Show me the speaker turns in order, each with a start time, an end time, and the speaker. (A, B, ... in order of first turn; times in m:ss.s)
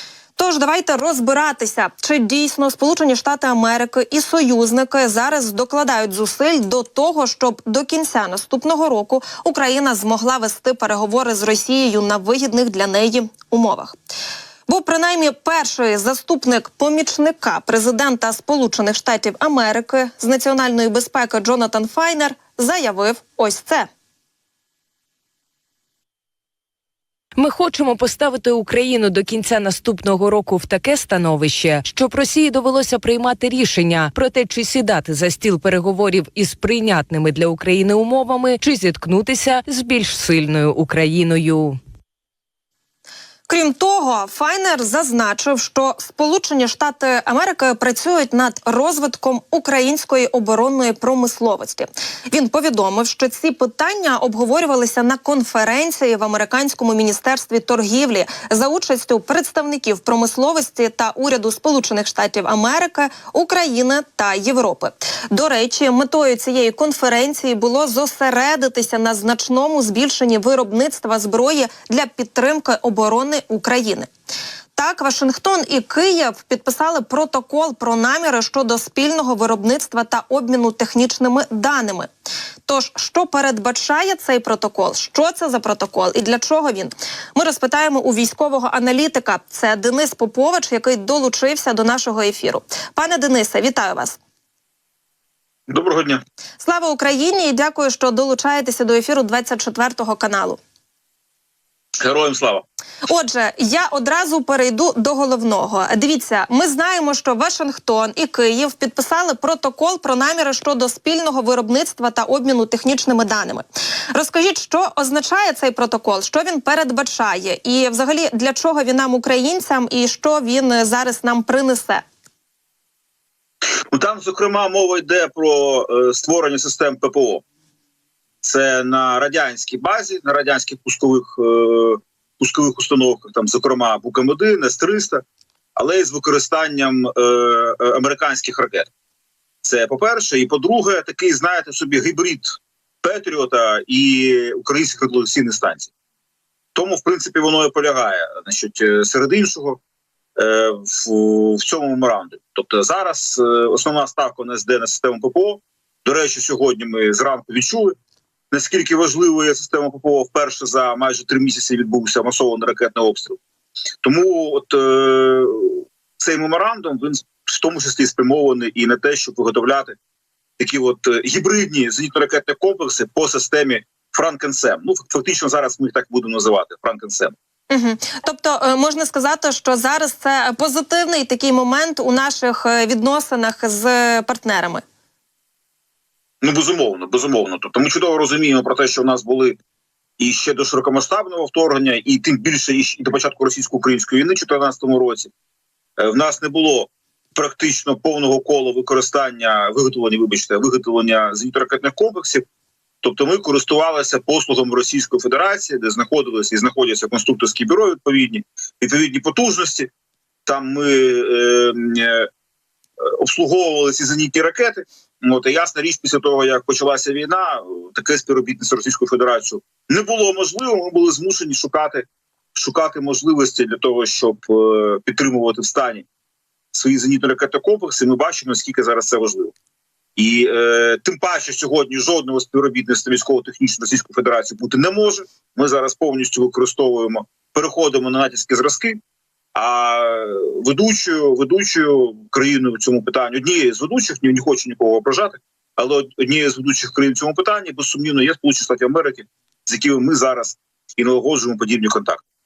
0:00.4-0:14.0 A
0:14.7-0:23.9 A
0:27.4-0:41.8 B
0:43.5-1:14.1 A
1:14.8-1:22.1 A
1:22.6-1:34.2 A
1:35.7-1:36.2 C
1:36.6-1:40.6 A
1:42.0-1:42.6 C
1:43.1-2:02.0 A
2:03.9-2:07.4 C
2:08.4-2:15.2 C
2:15.8-2:18.9 C
2:19.6-2:25.9 C
2:26.7-2:29.8 C
2:30.4-2:37.9 C
2:38.5-2:43.4 C
2:44.0-2:50.0 C
2:50.6-2:57.3 C
2:57.7-3:04.8 A
3:06.4-3:09.6 C
3:10.2-3:15.3 C
3:16.0-3:22.4 C
3:23.0-3:29.9 C
3:30.4-3:32.3 C
3:33.0-3:46.0 C
3:46.7-3:49.5 C
3:50.2-3:59.0 C
3:59.5-4:12.2 C